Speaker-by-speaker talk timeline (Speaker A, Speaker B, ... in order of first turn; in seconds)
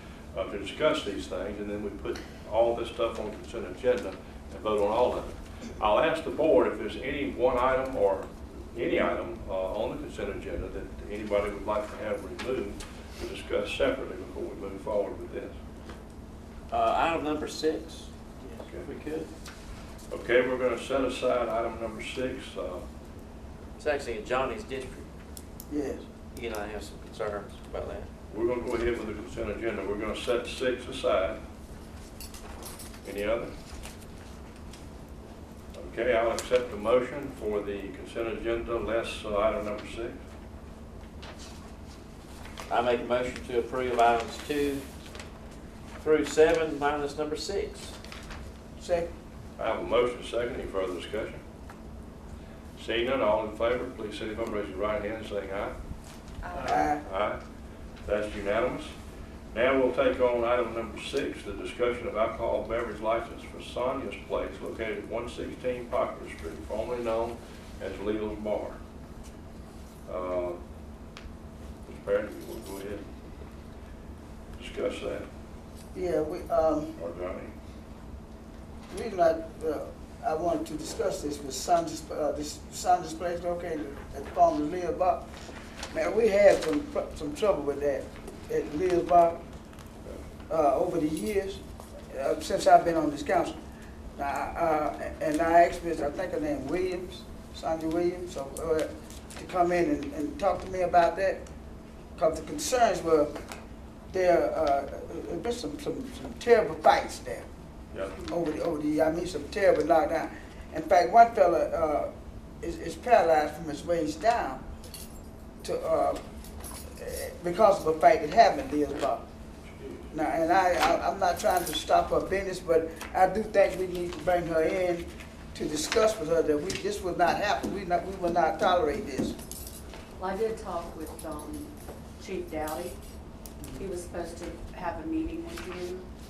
Speaker A: 0.3-15.5, 20.1-22.8, 28.3-31.4, 33.0-33.5, 35.7-40.1, 49.6-51.4, 52.8-55.8, 56.5-57.4, 58.0-58.9, 59.5-68.8, 70.1-70.6, 71.8-73.0, 74.6-75.2, 77.0-77.5, 119.7-120.1
Speaker B: 16.7-18.1, 18.8-19.3, 23.8-25.1, 26.3-28.1, 42.7-44.8, 46.0-47.9
Speaker C: 25.7-26.0, 48.8-49.1, 56.7-57.0, 75.9-76.9, 78.9-85.3, 85.9-89.4, 90.5-91.6, 92.1-93.5, 94.2-101.4, 102.2-103.3, 104.1-107.5, 108.2-112.1, 112.6-114.6, 115.6-116.2, 117.0-119.2, 120.1-129.3
Speaker D: 130.2-133.0, 133.7-136.1